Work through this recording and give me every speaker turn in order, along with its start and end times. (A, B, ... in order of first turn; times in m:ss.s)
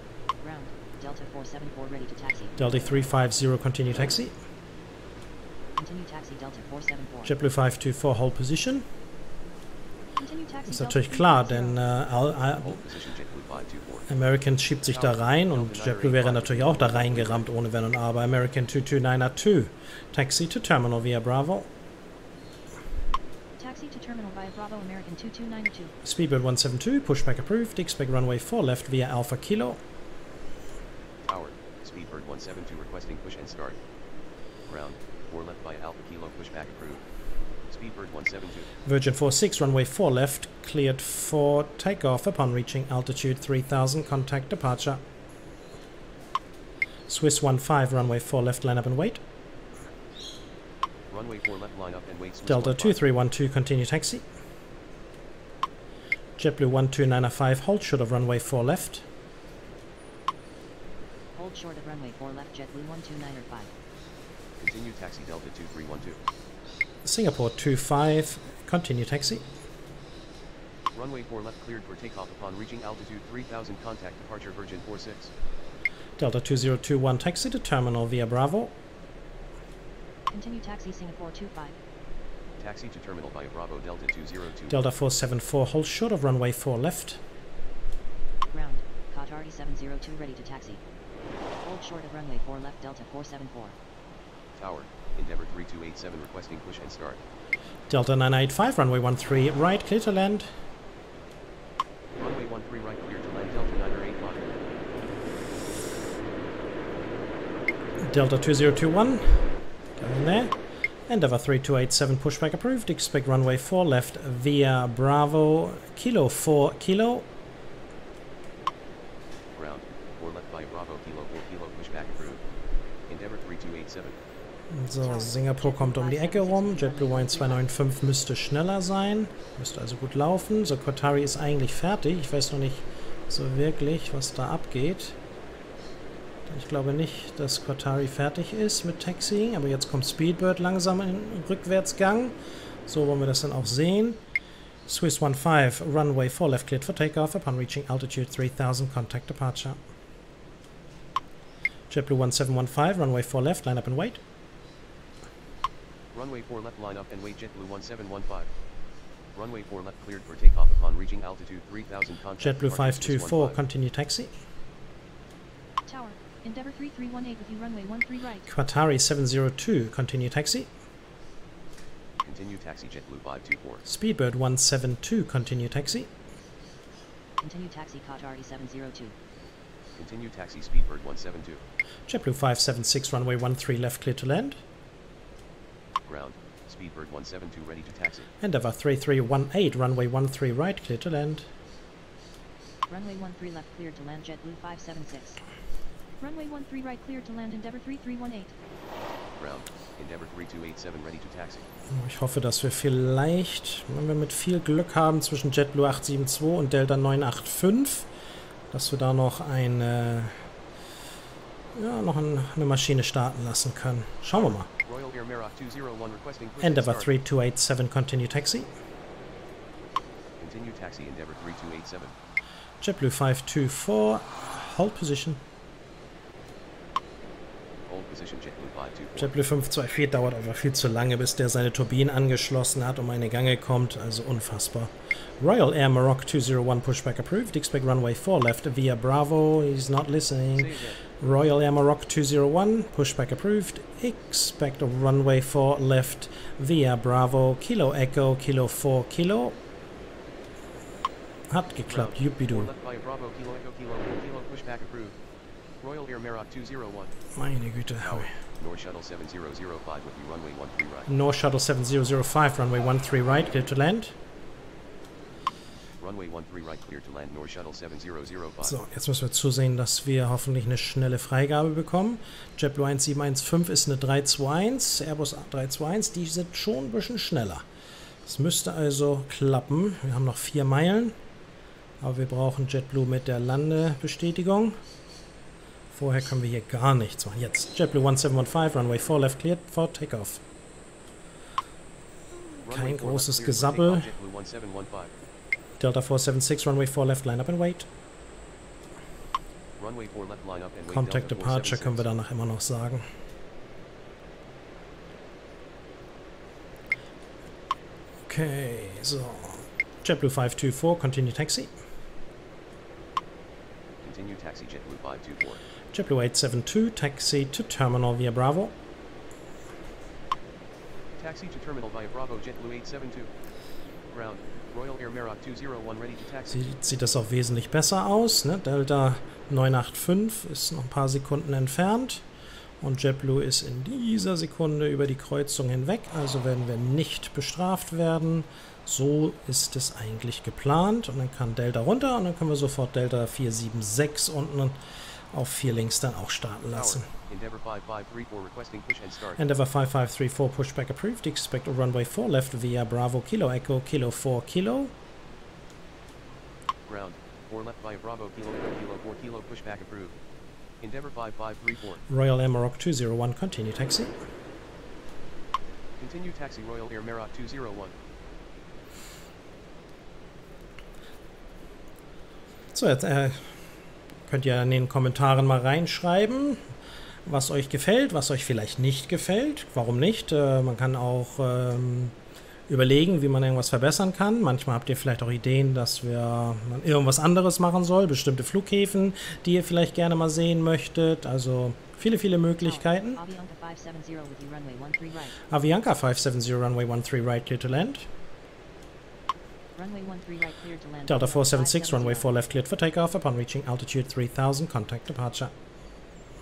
0:00.4-0:02.6 A
0:02.6-0:04.4 B
0:05.8-0:07.4 A
0:07.2-0:08.9 B
0:10.2-0:12.0 A
0:10.7-0:12.8 B
0:12.5-0:14.1 C
0:14.1-0:21.7 B
0:14.9-0:17.5 C
0:23.6-0:26.0 A
0:26.0-0:29.8 B
0:31.2-0:33.8 C
0:34.7-0:37.0 C
0:37.7-0:38.7 C
0:38.8-0:45.0 B
0:47.1-0:49.2 B
0:51.1-0:53.0 C
0:52.5-0:54.2 B
0:56.4-0:59.0 B
1:01.4-1:03.7 A
1:04.6-1:06.2 C
1:07.0-1:09.5 B
1:10.9-1:15.3 C
1:16.2-1:18.8 B
1:20.3-1:21.8 A
1:22.6-1:24.9 C
1:24.7-1:27.2 B
1:28.5-1:30.8 A
1:31.6-1:33.8 A
1:34.6-1:37.2 C
1:37.9-1:40.5 B
1:42.2-1:44.7 C
1:48.0-1:50.6 B
1:51.1-1:57.3 B
1:59.6-2:02.4 C
2:03.1-2:04.2 C
2:04.7-2:15.2 B
2:05.0-2:07.7 A
2:16.5-2:24.2 B
2:24.9-2:29.8 B
2:31.9-2:34.2 B
2:36.1-2:38.5 C
2:39.4-2:43.6 C
2:42.4-2:44.3 B
2:45.9-2:48.5 A
2:48.5-2:50.7 B
2:52.2-2:53.8 C
2:53.8-2:56.1 B
2:57.4-2:59.2 A
3:00.0-3:01.6 C
3:02.1-3:04.6 B
3:06.1-3:08.3 C
3:08.4-3:11.5 B
3:12.9-3:15.4 A
3:16.2-3:18.5 A
3:19.4-3:21.7 C
3:21.9-3:28.1 B
3:28.7-3:30.3 B
3:31.8-3:34.7 B
3:34.3-3:37.2 C
3:36.6-3:38.7 B
3:40.4-3:42.2 C
3:42.8-3:45.4 B
3:47.9-3:49.4 C
3:49.2-4:09.6 B
4:00.5-4:01.0 C
4:11.5-4:12.7 B
4:11.9-4:15.2 C
4:15.8-4:17.1 C
4:17.4-4:18.3 B
4:18.0-4:21.1 C
4:21.1-4:24.2 B
4:26.0-4:28.8 C
4:28.6-4:37.7 B
4:38.2-4:41.2 B
4:42.0-4:44.8 B
4:45.9-4:50.4 B
4:52.6-4:54.1 B
4:52.6-4:55.1 C
4:55.8-4:57.9 B
4:59.8-5:02.1 C
5:00.9-5:03.0 B
5:08.3-5:11.7 B
5:14.0-5:15.6 C
5:15.9-5:18.8 B
5:21.2-5:23.3 C
5:24.1-5:26.8 C
5:26.5-5:32.2 B
5:32.8-5:44.8 B
5:45.3-5:47.1 B
5:46.7-5:49.4 C
5:49.4-5:54.9 B
5:56.9-6:00.2 C
6:00.8-6:02.0 C
6:02.1-6:04.1 B
6:06.0-6:07.9 C
6:12.7-6:13.6 B
6:14.3-6:16.6 B
6:17.2-6:22.2 B
6:22.7-6:33.2 B
6:32.6-6:35.4 A
6:35.5-6:38.1 B
6:39.8-6:42.3 A
6:41.1-6:45.6 B